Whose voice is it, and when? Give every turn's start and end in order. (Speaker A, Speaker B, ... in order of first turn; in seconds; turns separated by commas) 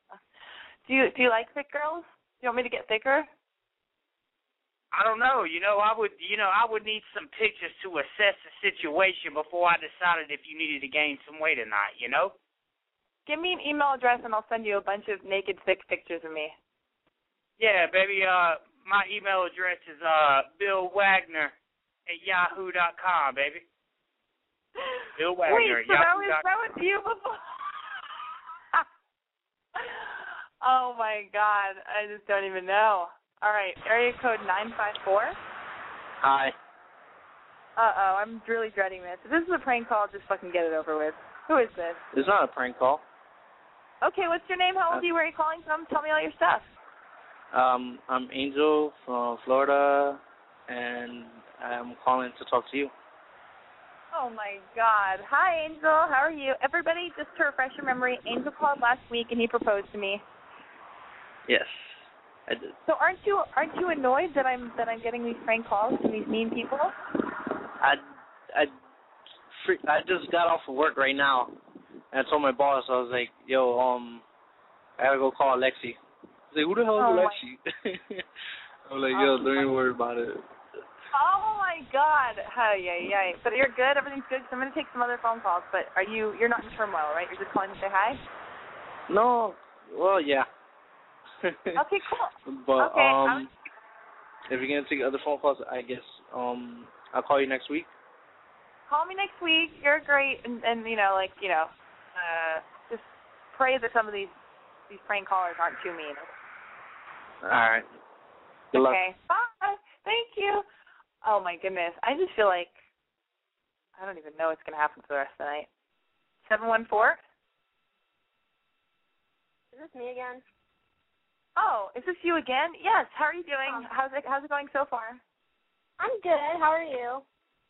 Speaker A: 0.9-3.3, Speaker B: 4.9-12.3, Speaker A: 13.3-16.5, Speaker B: 17.6-21.5, Speaker B: 22.1-23.6, Speaker B: 25.2-26.4, Speaker A: 25.5-28.0, Speaker A: 29.8-35.4, Speaker C: 36.2-36.5, Speaker A: 37.8-42.0, Speaker C: 42.1-43.0, Speaker A: 44.0-46.7, Speaker C: 47.5-52.9, Speaker A: 54.1-60.2, Speaker C: 61.5-62.7, Speaker A: 62.9-66.9, Speaker C: 69.6-71.6, Speaker C: 72.1-74.2, Speaker C: 75.0-76.0, Speaker C: 76.5-78.2, Speaker A: 77.0-77.4, Speaker C: 78.9-80.4, Speaker A: 79.1-79.7, Speaker A: 81.1-88.2, Speaker C: 89.1-90.5, Speaker C: 91.4-91.8, Speaker A: 91.8-93.5, Speaker C: 92.5-93.5, Speaker C: 94.5-97.9, Speaker A: 98.9-104.3, Speaker A: 104.9-106.3, Speaker C: 107.4-107.9, Speaker C: 108.7-109.0, Speaker A: 108.7-110.6, Speaker A: 111.2-112.7, Speaker A: 114.0-115.7, Speaker A: 116.5-117.2, Speaker D: 119.7-120.4, Speaker A: 121.6-125.2, Speaker D: 126.0-127.2